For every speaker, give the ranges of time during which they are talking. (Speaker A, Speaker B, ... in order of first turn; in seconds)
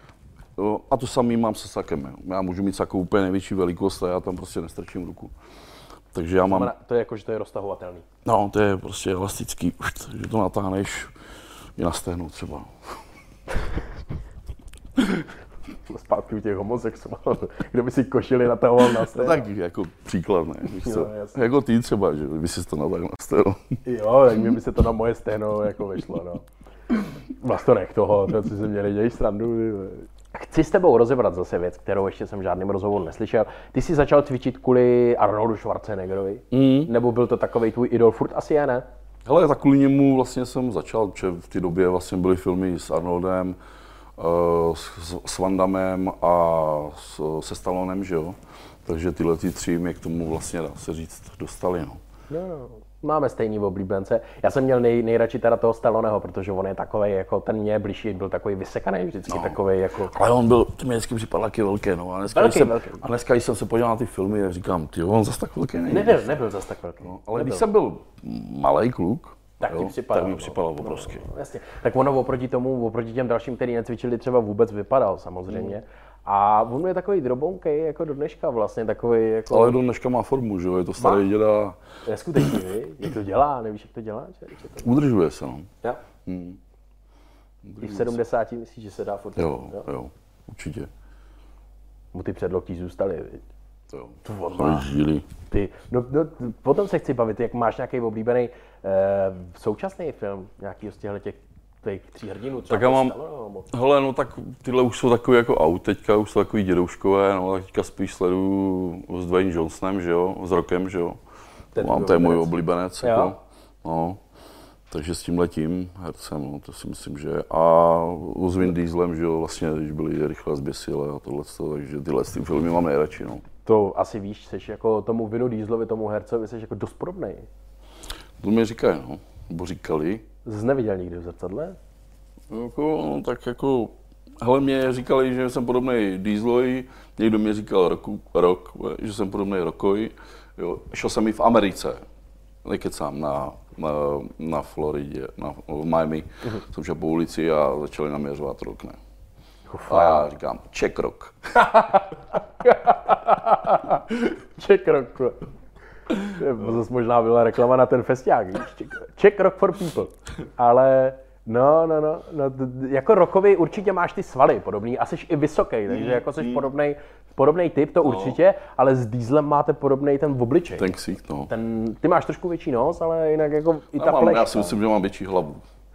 Speaker A: 0.6-5.3, 6.1-6.7, 8.2-11.1, 11.8-12.7, 15.0-15.2, 19.0-23.8, 36.5-36.9, 39.2-43.6, 44.2-52.0, 59.3-59.6, 60.1-66.3, 67.0-71.2, 79.5-81.8, 84.8-85.7, 86.2-86.6, 87.6-88.2, 89.4-90.9, 93.9-95.3, 102.7-103.2, 103.7-111.2, 111.8-114.2, 114.9-123.4, 128.4-130.2, 132.5-142.0, 142.6-149.0, 149.9-151.6, 165.9-166.6, 168.0-168.4, 170.8-171.5, 173.9-175.6
Speaker B: 6.4-8.0, 15.9-19.4, 20.8-21.4, 23.8-26.4, 27.4-38.9, 52.3-60.1, 62.3-63.0, 65.9-67.6, 69.6-79.8, 81.0-81.3, 82.0-84.9, 87.8-89.9, 92.1-93.5, 94.2-94.9, 95.5-103.7, 111.7-113.3, 123.7-127.5, 130.4-131.8, 149.7-150.2, 151.6-155.4, 156.2-171.0, 171.5-174.8